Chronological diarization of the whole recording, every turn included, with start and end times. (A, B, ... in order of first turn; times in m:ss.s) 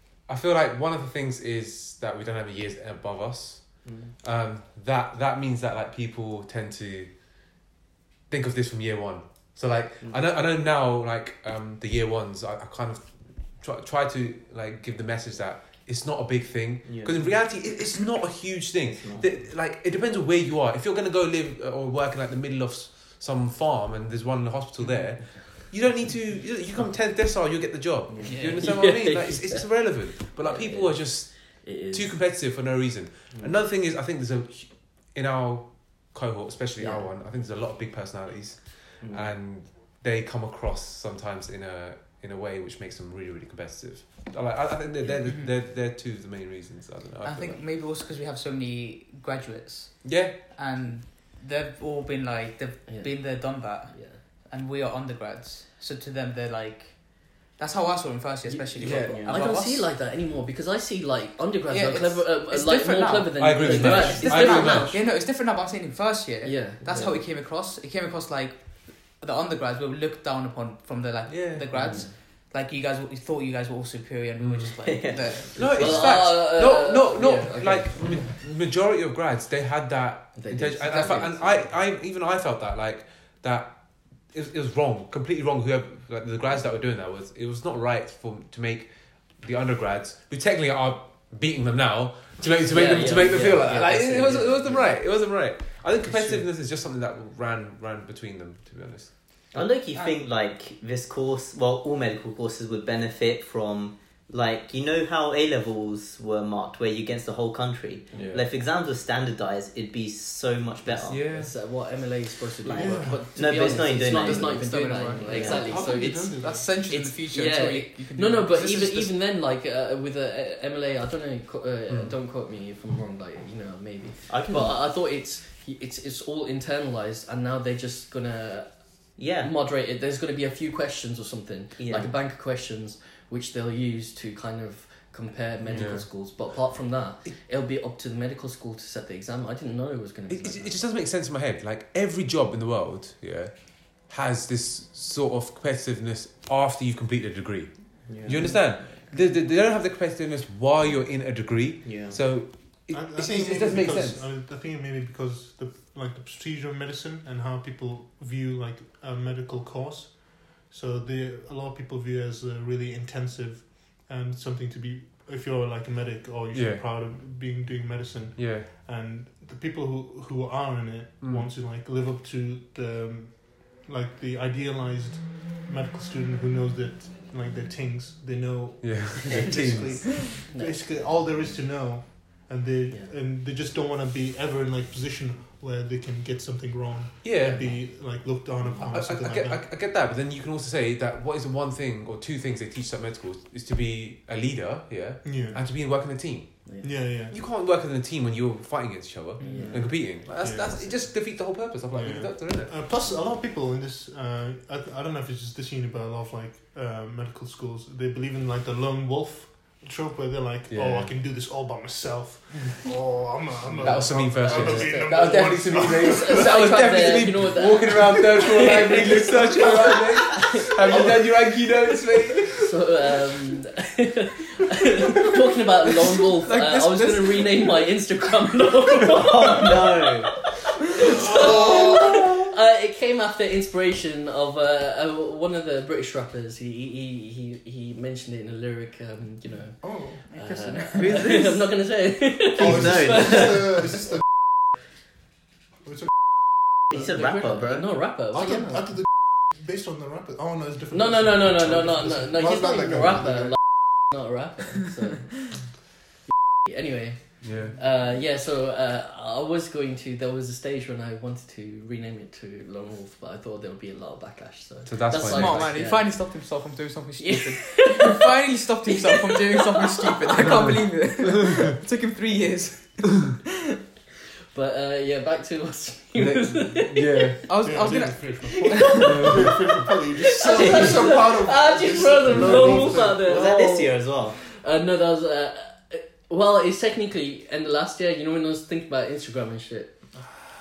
0:00.3-0:03.7 A
0:03.8-0:04.1 B
0:04.2-0:07.1 A
0:08.3-0:13.0 A
0:13.6-0:47.6 A
0:16.9-0:17.1 B
0:18.8-0:19.3 B
0:25.2-0:25.5 C
0:28.1-0:28.5 B
0:28.3-0:28.6 D
0:28.6-0:32.1 C
0:36.8-0:37.0 C
0:39.0-0:39.3 B
0:47.2-0:54.0 D
0:50.0-0:50.4 A
0:54.5-0:59.9 D
0:58.5-0:59.4 B
0:58.8-0:59.3 A
0:59.3-1:05.0 C
1:01.7-1:16.3 D
1:03.4-1:05.0 A
1:06.4-1:07.0 C
1:06.9-1:07.1 B
1:11.3-1:11.7 A
1:11.8-1:12.1 C
1:14.8-1:15.9 B
1:15.6-1:23.7 A
1:15.8-1:18.3 C
1:20.4-1:21.6 C
1:24.3-1:39.1 A
1:32.7-1:34.9 C
1:39.5-1:51.2 B
1:48.1-1:48.4 A
1:51.0-1:51.5 A
1:51.3-1:56.3 C
1:52.6-1:55.8 B
1:52.8-1:53.3 E
1:54.1-1:59.1 D
1:55.4-1:56.7 E
1:56.9-2:08.7 C
2:01.9-2:02.2 A
2:04.3-2:04.8 B
2:09.2-2:09.5 B
2:09.4-2:20.7 C
2:11.8-2:12.1 B
2:15.7-2:16.1 A
2:20.3-2:34.2 A
2:28.1-2:28.6 B
2:31.8-2:32.2 B
2:32.9-3:09.6 E
2:46.5-2:46.8 A
2:48.4-2:48.7 A
2:58.8-3:00.4 A
2:59.4-3:00.8 C
3:07.2-3:07.8 A
3:08.9-3:22.7 A
3:15.2-3:15.6 E
3:16.8-3:17.4 E
3:19.4-3:19.8 C
3:19.5-3:19.8 B
3:20.2-3:21.0 E
3:21.9-3:36.6 E
3:30.7-3:31.1 A
3:33.8-3:42.7 A
3:34.3-3:41.2 C
3:42.6-4:04.1 C
3:46.1-3:47.9 D
3:49.0-3:50.3 B
3:51.1-3:52.2 E
3:59.8-4:00.2 E
4:00.3-4:01.7 D
4:02.6-4:03.9 B
4:02.6-4:04.0 E
4:06.9-4:07.9 B
4:07.0-4:08.9 C
4:08.3-4:13.6 E
4:11.0-4:15.4 C
4:16.6-4:26.2 C
4:17.4-4:17.7 A
4:24.9-4:25.8 A
4:25.2-4:33.4 D
4:27.2-4:28.2 C
4:28.9-4:29.9 C
4:30.4-4:31.6 A
4:34.5-4:37.3 C
4:36.2-4:37.4 A
4:37.5-4:39.0 D
4:37.6-4:43.5 E
4:38.8-4:49.9 C
4:39.0-4:39.5 A
4:40.4-4:41.3 B
4:42.3-4:43.0 A
4:43.1-4:44.4 B